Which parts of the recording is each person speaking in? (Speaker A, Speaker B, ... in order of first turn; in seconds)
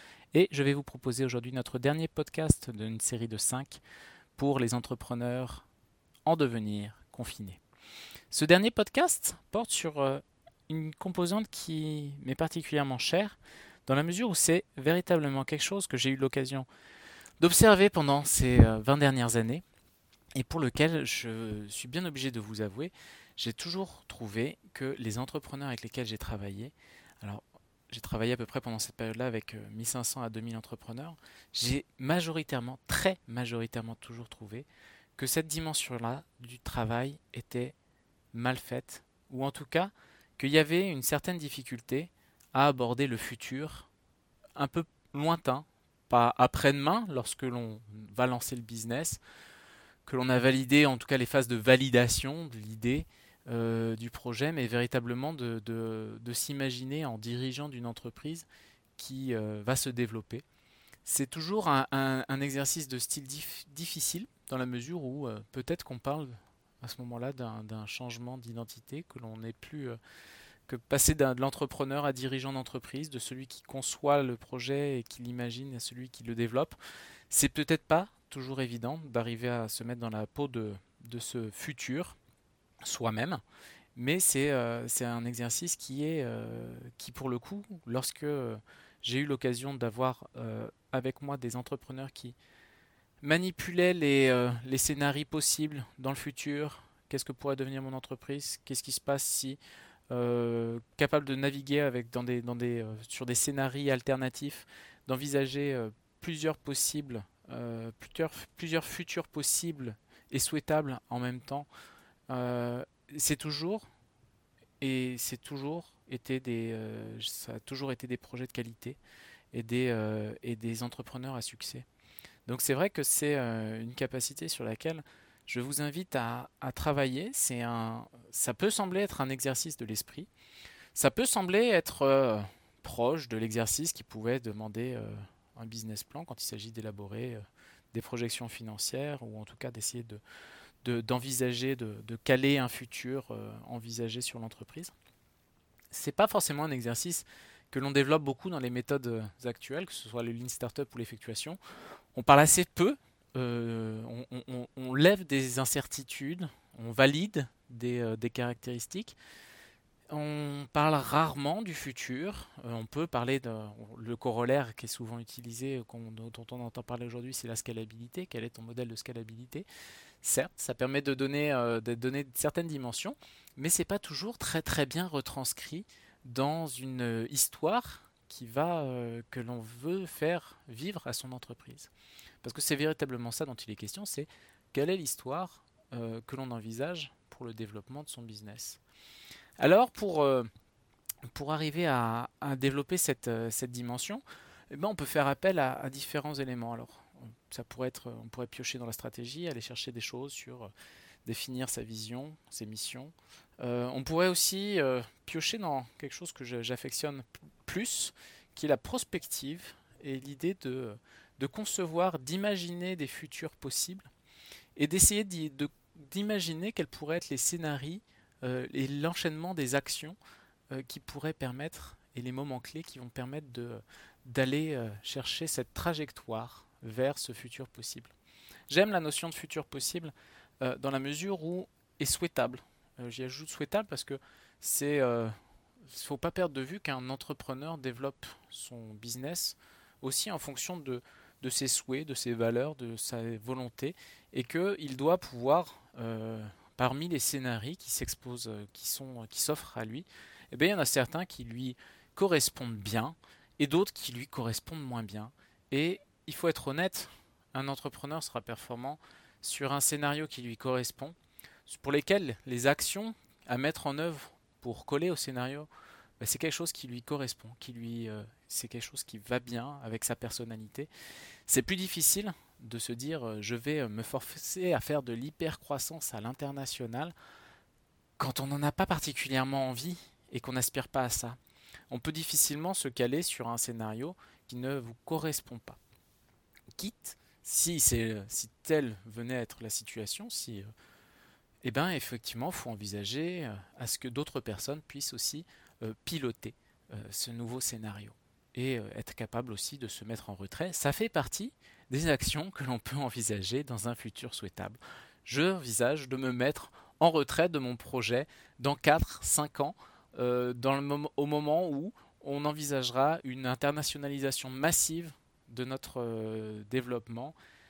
Speaker A: 0.3-3.8, 4.4-5.7, 6.2-7.6, 8.3-16.7, 17.4-19.6, 20.4-37.7, 38.3-43.9, 44.5-49.2, 50.0-60.4, 61.0-70.0, 70.7-76.8, 77.3-82.2, 82.8-83.4, 84.0-92.3, 93.2-99.6, 100.1-111.7, 112.3-113.9, 114.8-119.0, 119.5-121.8, 122.5-130.3, 130.9-137.4, 137.9-140.2, 140.8-144.9, 145.9-151.6, 152.1-159.2, 160.1-169.7, 170.2-181.9, 182.4-188.8, 189.6-190.5, 191.3-200.7, 201.2-214.1, 214.8-220.2, 220.7-228.1, 228.7-235.3, 235.9-265.7, 266.2-270.9, 271.5-277.1, 278.2-281.4, 281.9-285.8, 286.8-290.7, 291.6-317.3